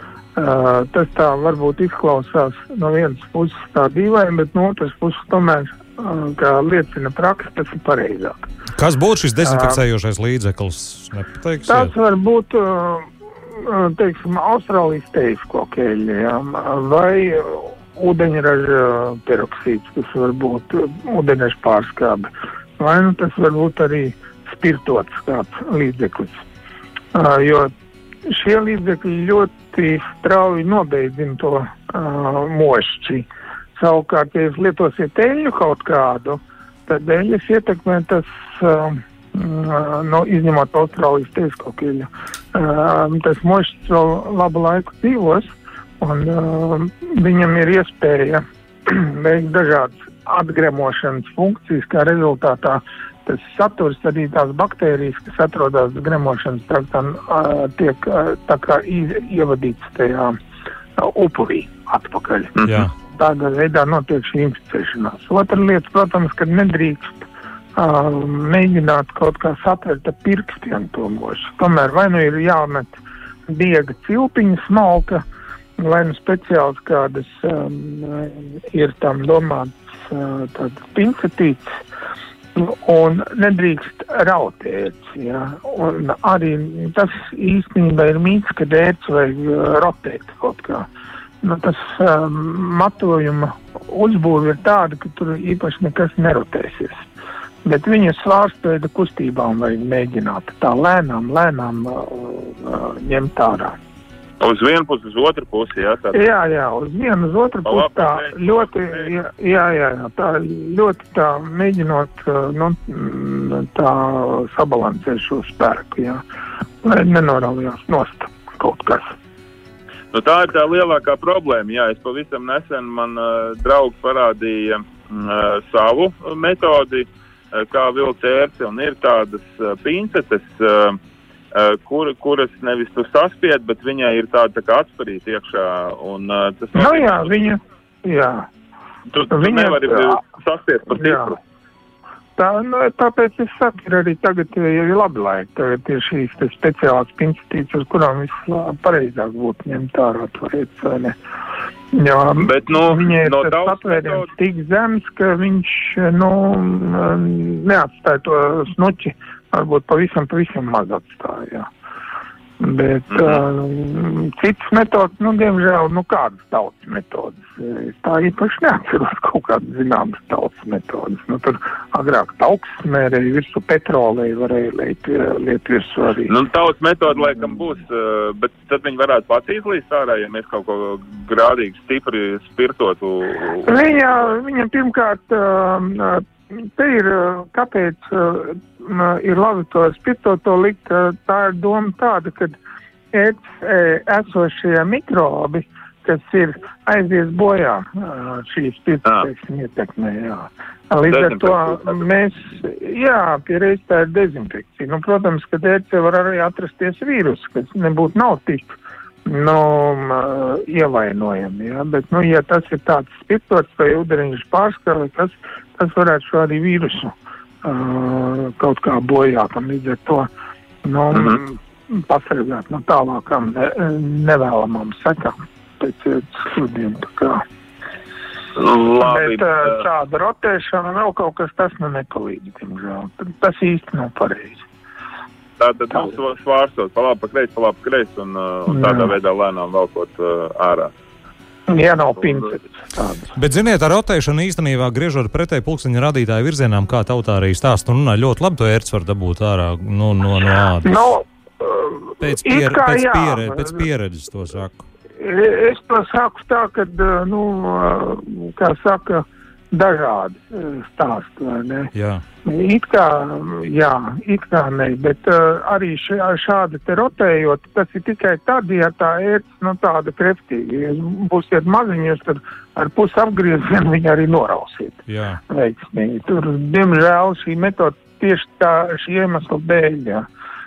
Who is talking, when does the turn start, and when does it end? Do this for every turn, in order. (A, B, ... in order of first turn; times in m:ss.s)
0:00.4-0:08.5 A
0:08.8-0:11.9 B
0:09.4-0:09.8 A
0:11.7-0:26.4 A
0:27.1-0:27.7 A
0:28.3-0:45.5 A
0:46.0-1:00.4 A
1:01.0-1:02.5 A
1:02.6-1:02.8 C
1:03.1-1:12.9 A
1:13.5-1:15.2 A
1:15.8-1:21.7 A
1:22.6-1:30.9 A
1:31.4-1:37.0 A
1:37.6-1:43.8 A
1:44.4-1:46.2 C
1:46.1-1:56.2 A
1:47.6-1:49.1 C
1:56.8-1:59.2 A
2:00.1-2:11.0 C
2:11.5-2:17.5 C
2:16.8-2:18.5 A
2:19.1-2:21.4 C
2:19.3-2:20.2 A
2:20.9-2:21.4 A
2:22.4-2:31.2 A
2:31.9-2:41.7 A
2:32.4-2:34.3 C
2:42.6-2:56.3 A
2:43.1-2:43.4 C
2:56.3-3:03.7 C
3:03.6-3:12.6 A
3:13.1-3:40.3 A
3:21.1-3:22.0 C
3:40.8-3:47.4 A
3:48.6-3:49.8 C
3:49.0-3:54.6 A
3:55.6-4:00.9 C
3:58.7-3:59.1 A
4:01.7-4:03.4 A
4:03.4-4:11.0 B
4:10.8-4:13.8 A
4:12.2-4:14.8 B
4:15.2-4:21.9 A
4:21.9-4:22.2 B
4:22.4-4:40.2 A
4:35.1-4:35.4 B